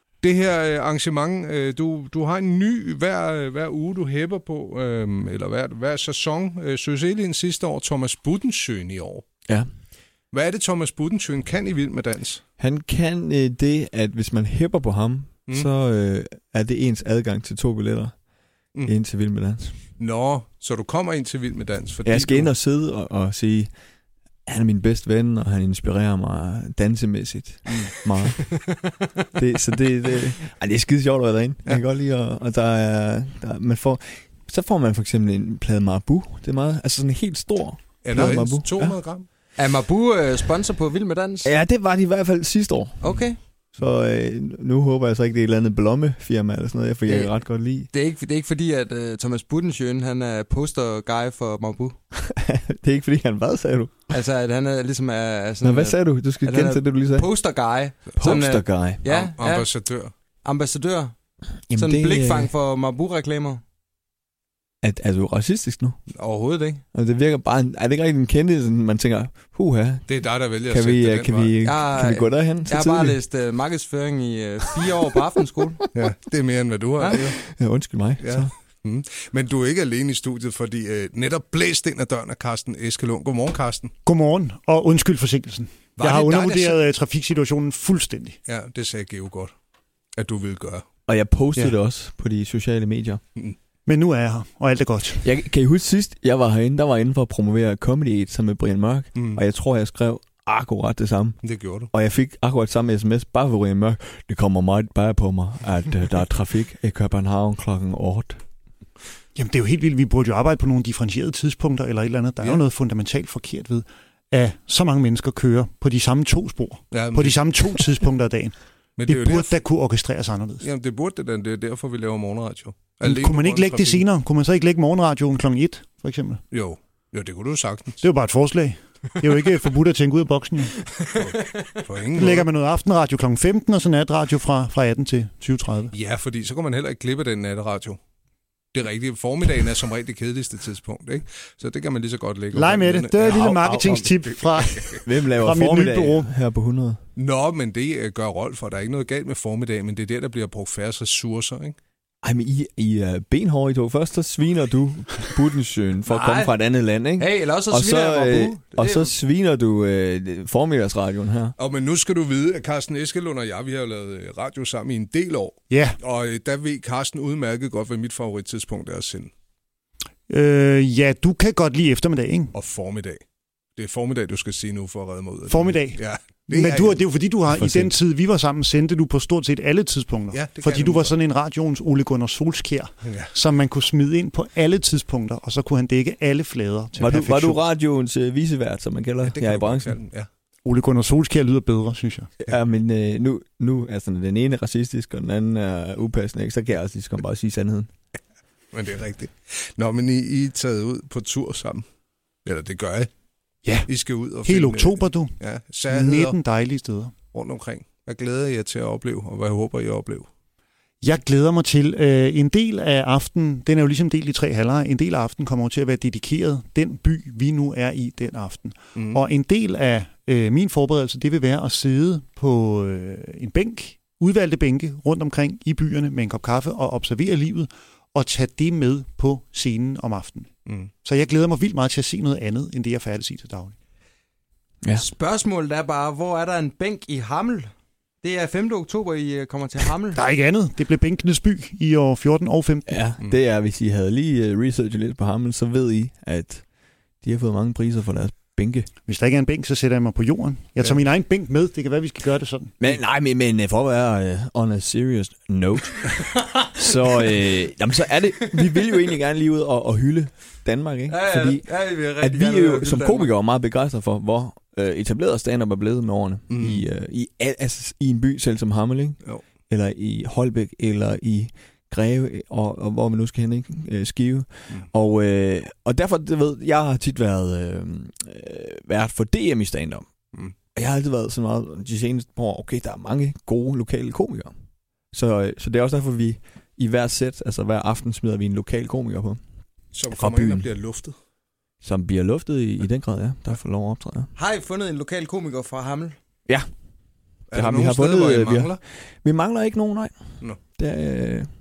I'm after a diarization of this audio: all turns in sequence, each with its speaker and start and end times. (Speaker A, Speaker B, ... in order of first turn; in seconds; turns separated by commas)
Speaker A: 0.2-9.2, Speaker A: 10.3-12.4, Speaker B: 12.6-18.1, Speaker B: 18.9-19.8, Speaker A: 20.0-22.5, Speaker B: 22.0-23.7, Speaker B: 24.4-28.6, Speaker B: 29.3-39.0, Speaker A: 38.0-39.2, Speaker C: 39.6-41.5, Speaker B: 41.4-43.2, Speaker C: 43.0-43.4, Speaker B: 43.8-47.9, Speaker C: 47.1-47.3, Speaker C: 47.9-52.0, Speaker B: 52.1-54.0, Speaker C: 54.1-59.7, Speaker B: 55.6-57.3, Speaker B: 58.2-59.0, Speaker A: 59.0-60.1, Speaker C: 60.4-61.1, Speaker B: 61.7-62.5, Speaker C: 61.7-63.6, Speaker B: 64.8-66.0, Speaker C: 66.2-66.8, Speaker B: 66.9-70.1, Speaker A: 70.1-71.5, Speaker B: 70.7-73.2, Speaker C: 71.6-75.8, Speaker A: 75.9-77.4, Speaker B: 77.1-78.5, Speaker A: 78.2-83.9, Speaker D: 84.0-88.4, Speaker A: 86.0-86.8, Speaker A: 88.5-89.5, Speaker A: 90.2-90.8, Speaker B: 91.1-93.2, Speaker D: 93.9-95.2, Speaker B: 95.2-101.4, Speaker A: 99.2-99.4, Speaker A: 101.4-101.9, Speaker B: 101.9-108.4, Speaker D: 109.3-118.5, Speaker A: 116.9-117.6, Speaker A: 119.0-119.6, Speaker D: 119.0-120.7, Speaker A: 120.6-124.0, Speaker D: 123.0-126.4, Speaker A: 126.5-128.0, Speaker D: 128.0-130.8, Speaker A: 131.1-132.5, Speaker C: 131.4-131.7, Speaker D: 132.2-135.9, Speaker A: 135.9-138.0, Speaker A: 138.7-145.0, Speaker D: 142.5-146.3, Speaker B: 145.0-147.0, Speaker A: 147.2-151.8, Speaker B: 152.2-161.5, Speaker C: 156.1-156.5, Speaker C: 157.2-159.1, Speaker A: 161.6-169.3, Speaker D: 165.7-166.0, Speaker D: 170.3-172.5, Speaker A: 172.5-173.2, Speaker A: 173.8-177.0, Speaker D: 175.5-187.6, Speaker B: 177.5-177.9, Speaker A: 180.3-181.1, Speaker A: 183.0-183.3, Speaker B: 187.0-190.0, Speaker A: 189.2-190.3, Speaker D: 190.6-192.3, Speaker B: 192.4-197.9, Speaker A: 198.7-201.8, Speaker A: 202.4-203.1, Speaker A: 203.9-206.4, Speaker D: 204.4-205.3, Speaker D: 205.9-207.1, Speaker A: 207.3-210.3, Speaker D: 211.0-230.5, Speaker A: 218.9-219.2, Speaker D: 231.0-233.7, Speaker C: 234.9-237.7, Speaker C: 238.2-240.2, Speaker D: 240.2-243.0, Speaker B: 242.9-246.6, Speaker B: 247.2-248.9, Speaker D: 249.1-252.8, Speaker B: 252.8-280.1, Speaker C: 256.5-257.3, Speaker C: 261.1-263.3, Speaker A: 266.5-266.8, Speaker B: 280.7-284.5, Speaker B: 285.1-289.4, Speaker A: 289.9-291.1, Speaker B: 290.1-290.7, Speaker B: 291.8-294.3, Speaker C: 294.4-296.1, Speaker A: 297.5-298.8, Speaker B: 297.5-300.1, Speaker B: 300.8-301.5